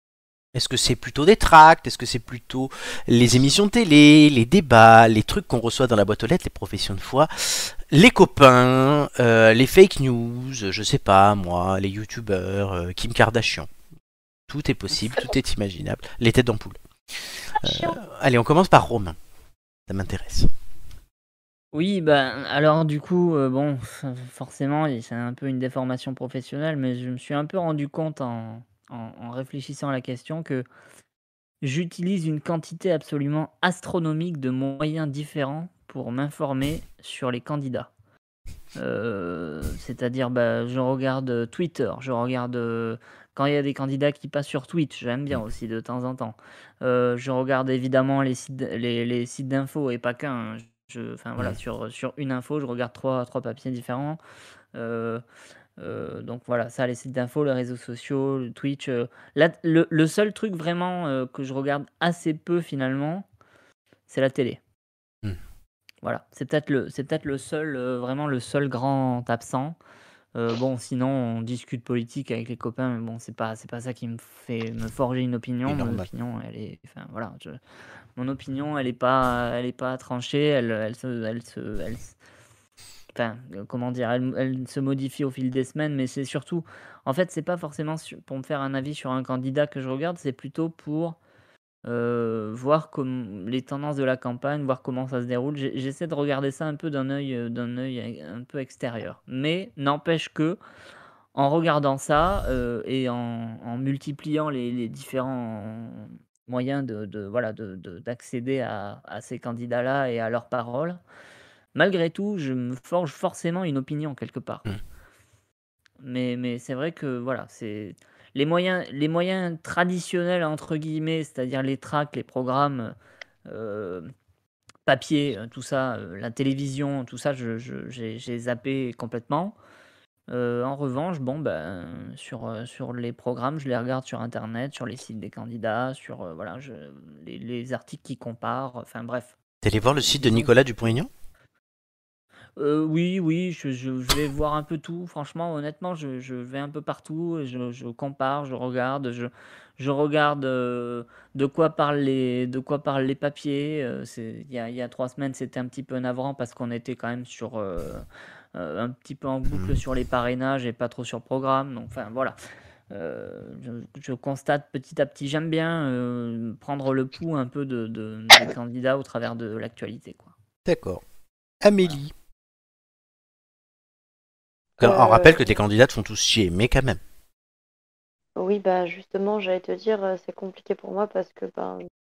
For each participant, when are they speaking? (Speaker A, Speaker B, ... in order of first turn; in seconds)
Speaker A: 0.5-13.7, 14.5-16.8, 17.6-19.2, 19.9-20.5, 75.7-76.1, 139.6-141.1, 159.5-159.8, 170.6-171.0, 171.6-172.1, 174.8-177.0
Speaker B: 21.7-30.6, 31.6-37.9, 38.8-54.2, 54.7-55.2, 55.8-63.3, 64.1-64.6, 66.0-69.8, 70.3-77.6, 78.2-82.1, 83.1-91.2, 91.8-100.6, 101.3-111.0, 111.7-114.7, 116.0-122.9, 123.5-124.1, 124.8-129.6, 130.3-139.3, 140.0-140.6, 142.6-162.3, 162.9-170.3
Speaker C: 174.8-175.4, 178.3-181.8